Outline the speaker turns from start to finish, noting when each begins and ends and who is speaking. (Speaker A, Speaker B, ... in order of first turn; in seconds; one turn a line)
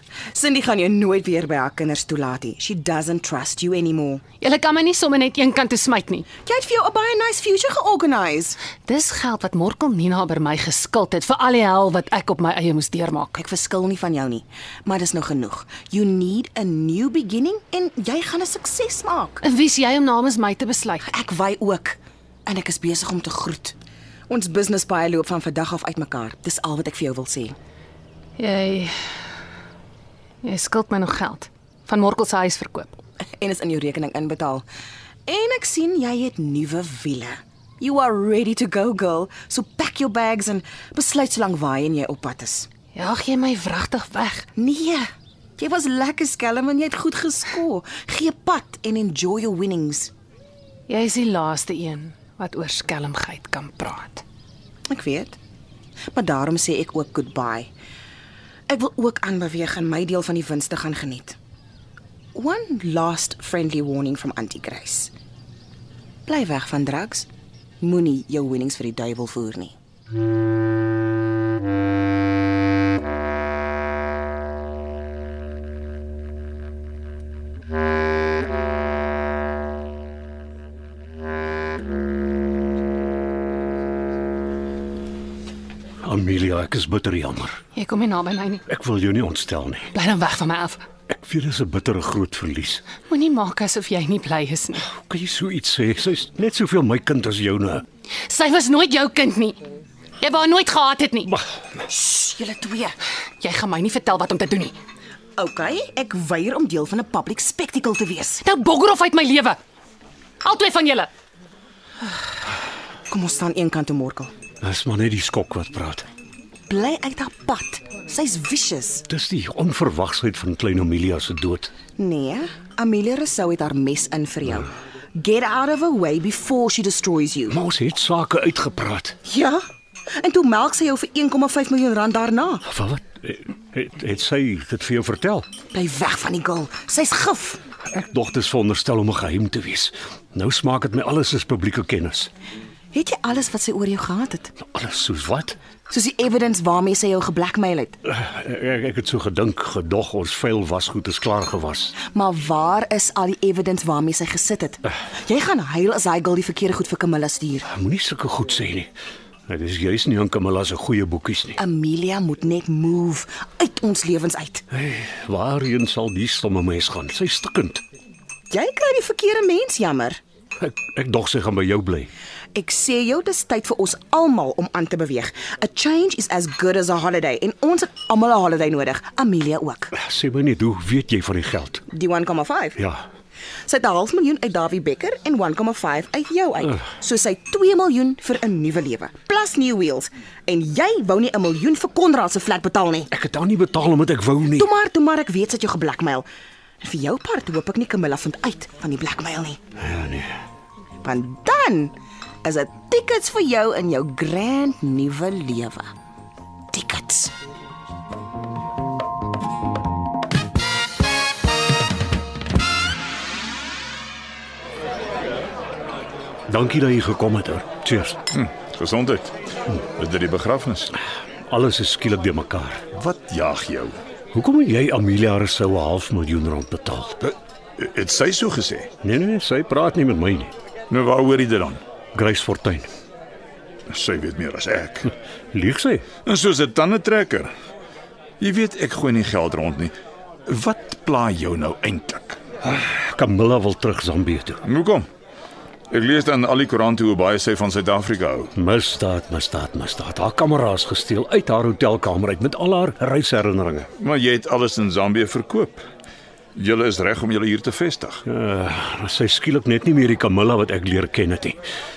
Speaker A: 0.3-4.2
Speaker B: 4.4-6.3
Speaker A: 6.4-8.6
Speaker B: 8.8-13.4
Speaker A: 13.3-19.4
Speaker B: 19.4-21.0
Speaker A: 21.0-23.8
Speaker A: 24.3-27.6
Speaker B: 28.4-28.9
Speaker B: 30.4-32.9
Speaker A: 33.4-34.6
Speaker A: 35.3-42.7
Speaker B: 42.9-44.5
Speaker A: 44.5-45.1
Speaker A: 45.6-50.1
Speaker B: 50.9-54.2
Speaker A: 54.9-55.4
Speaker A: 56.1-57.7
Speaker A: 58.7-61.4
Speaker A: 62.3-65.1
Speaker A: 66.2-67.3
Speaker A: 67.8-69.7
Speaker C: 86.0-87.6
Speaker B: 87.7-88.6
Speaker C: 88.7-89.9
Speaker B: 89.9-90.8
Speaker C: 91.1-92.8
Speaker B: 93.0-94.8
Speaker C: 94.9-97.8
Speaker B: 98.3-99.6
Speaker B: 100.2-101.3
Speaker A: 101.8-102.9
Speaker B: 103.4-104.8
Speaker A: 105.4-108.4
Speaker B: 108.4-109.6
Speaker B: 110.4-111.1
Speaker A: 113.1-114.3
Speaker C: 114.6-116.1
Speaker A: 116.7-119.0
Speaker C: 119.1-121.7
Speaker A: 122.0-127.6
Speaker C: 127.5-129.2
Speaker A: 129.2-129.6
Speaker A: 130.2-132.6
Speaker C: 132.7-135.5
Speaker A: 135.7-137.6
Speaker C: 137.9-142.3
Speaker A: 142.9-144.5
Speaker C: 144.6-145.6
Speaker A: 145.9-148.0
Speaker C: 148.0-151.9
Speaker A: 152.1-157.7
Speaker C: 157.7-158.9
Speaker C: 159.5-161.6
Speaker A: 161.6-164.6
Speaker C: 164.7-167.8
Speaker A: 168.5-170.2
Speaker C: 170.6-172.1
Speaker A: 172.5-179.9
Speaker C: 179.9-181.8
Speaker A: 181.9-182.8
Speaker C: 182.8-183.0
Speaker A: 183.7-193.1
Speaker C: 193.1-194.7
Speaker A: 194.5-196.3
Speaker A: 196.8-199.6
Speaker C: 199.8-200.3
Speaker A: 201.0-205.9
Speaker A: 206.7-207.3
Speaker C: 216.5-218.2
Speaker D: 218.3-220.9
Speaker C: 221.5-222.8
Speaker D: 222.9-224.0
Speaker C: 224.3-227.2
Speaker D: 227.2-228.9
Speaker C: 229.0-230.5
Speaker D: 230.9-231.8
Speaker C: 232.1-232.9
Speaker D: 233.9-235.1
Speaker C: 235.5-236.0
Speaker D: 236.2-237.5
Speaker D: 238.4-239.9
Speaker D: 240.5-242.4
Speaker C: 242.6-244.6
Speaker D: 244.6-245.1
Speaker D: 245.9-248.5
Speaker C: 248.6-253.9
Speaker D: 254.0-255.8
Speaker D: 256.5-258.2
Speaker C: 258.3-261.6